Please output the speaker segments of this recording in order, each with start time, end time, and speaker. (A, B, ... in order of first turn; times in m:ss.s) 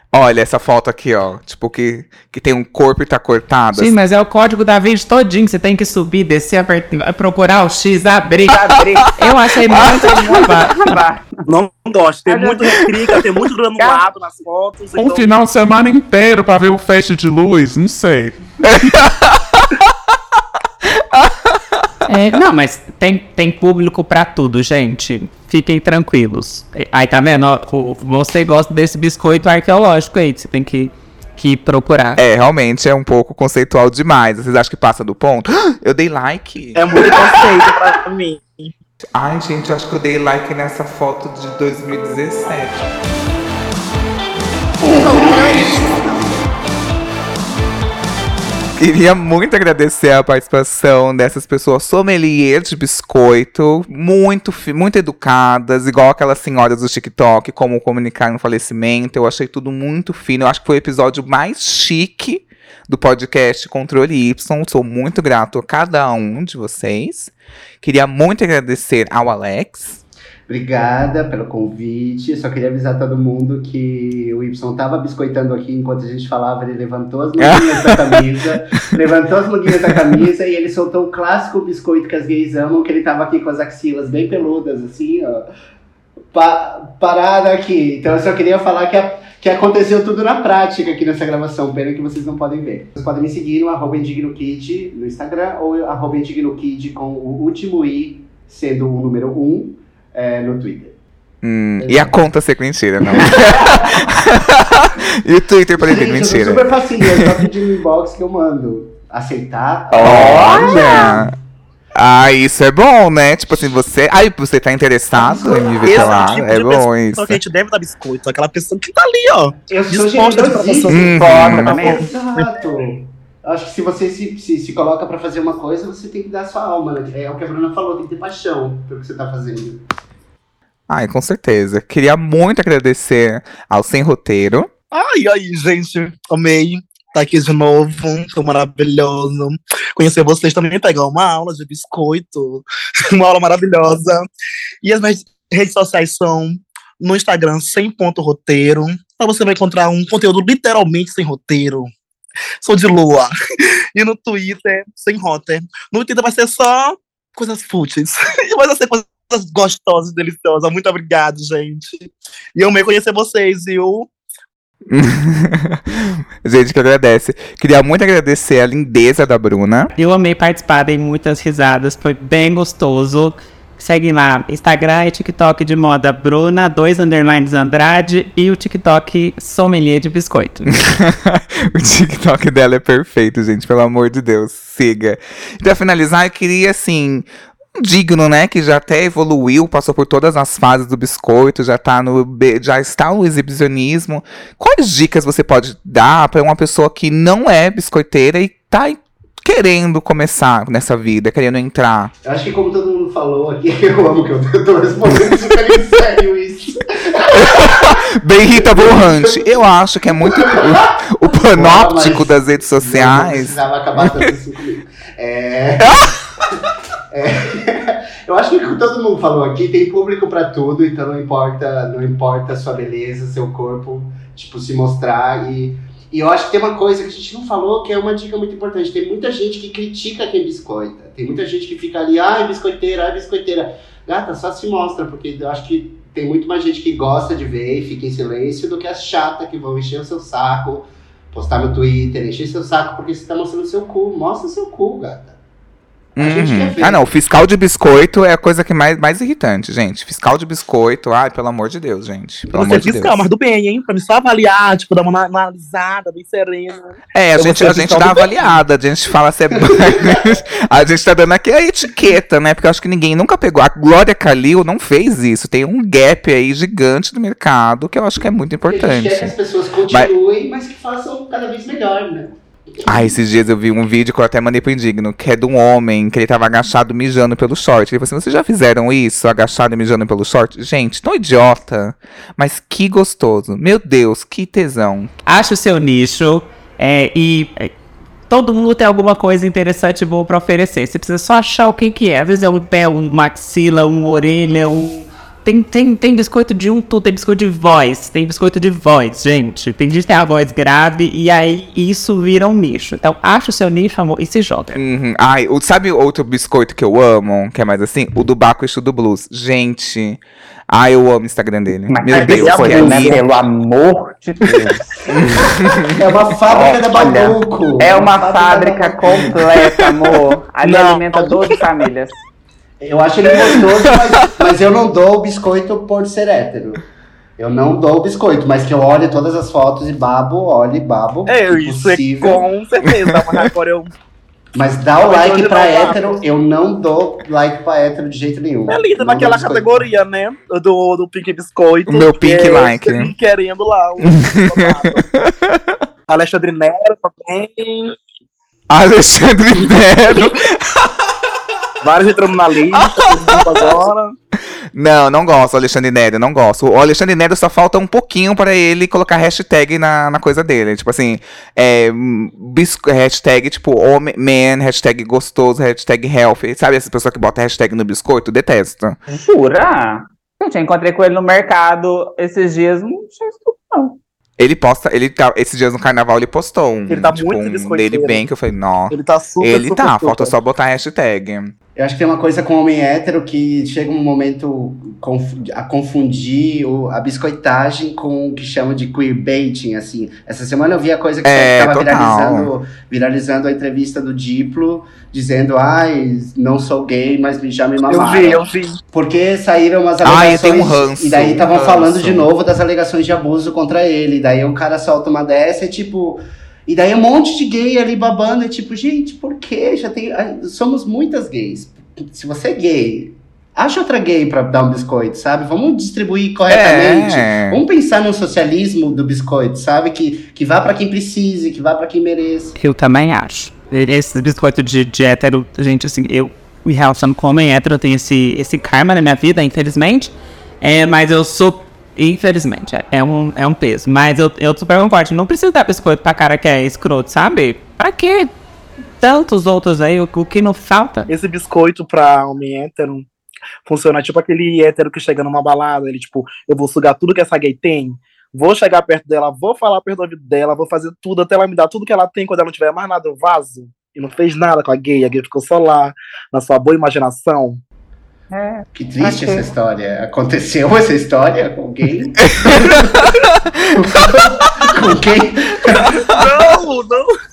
0:00.1-0:04.0 A
0:03.7-0:08.6 B
0:08.5-0:09.1 C
0:09.2-0:10.8 B
0:09.7-0:11.5 C
0:11.5-0:15.3 D
0:12.3-0:13.1 C
0:13.8-0:14.0 C
0:15.0-0:18.4 E
0:18.7-0:19.2 A
0:22.1-0:32.2 B
0:32.2-0:37.5 A
0:36.8-0:38.7 D
0:39.1-0:42.9 A
0:44.8-0:46.3 D
0:48.8-1:10.0 A
1:10.5-1:25.5 F
1:17.4-1:18.2 A
1:26.3-1:41.0 F
1:41.4-1:47.4 A
1:41.8-1:42.2 F
1:43.1-1:44.0 F
1:45.8-1:51.3 F
1:49.9-1:51.2 C
1:50.0-1:51.3 A
1:51.9-1:57.4 A
1:55.2-1:56.3 F
1:55.8-2:02.1 D
1:59.7-2:09.8 F
2:00.9-2:01.9 A
2:01.0-2:02.1 C
2:10.9-2:14.7 A
2:14.9-2:24.3 D
2:24.8-2:31.9 D
2:32.6-2:33.3 D
2:33.9-2:44.1 D
2:44.9-2:49.9 A
2:50.0-3:00.7 B
3:00.8-3:22.1 A
3:22.2-3:28.0 F
3:27.3-3:34.3 A
3:28.6-3:29.4 F
3:30.4-3:30.8 F
3:31.5-3:36.1 F
3:35.8-3:36.1 A
3:37.1-4:05.4 F
4:06.2-4:13.2 A
4:06.2-4:07.0 F
4:12.5-4:18.6 D
4:17.1-4:29.3 A
4:19.7-4:20.2 F
4:28.7-4:33.1 F
4:32.8-4:45.1 A
4:45.3-4:47.7 B
4:48.3-5:04.8 B
5:04.7-5:13.2 A
5:11.9-5:15.5 C
5:12.1-5:13.2 D
5:15.1-5:15.9 A
5:16.0-5:19.0 F
5:16.5-5:22.2 C
5:19.4-5:21.6 D
5:22.8-5:26.8 F
5:27.4-5:32.4 F
5:31.3-5:33.9 D
5:34.5-5:39.9 F
5:35.0-5:36.2 D
5:38.7-5:45.1 D
5:41.9-5:43.1 A
5:45.1-5:45.7 A
5:46.1-5:47.9 D
5:48.7-5:50.9 A
5:51.8-5:54.1 D
5:53.2-5:53.6 A
5:54.7-6:09.0 A
6:09.1-6:14.0 C
6:14.4-6:21.5 A
6:16.9-6:18.2 D
6:18.9-6:20.3 D
6:21.8-7:02.5 F
6:31.2-6:32.5 A
6:37.9-6:38.8 D
6:40.0-6:42.3 A
6:56.5-6:57.6 A
7:02.6-7:18.3 B
7:19.0-7:21.1 B
7:21.1-7:23.1 D
7:23.6-7:37.6 D
7:38.3-7:39.5 C
7:38.7-7:42.9 F
7:42.2-7:43.0 A
7:43.8-7:46.0 F
7:46.0-7:47.1 D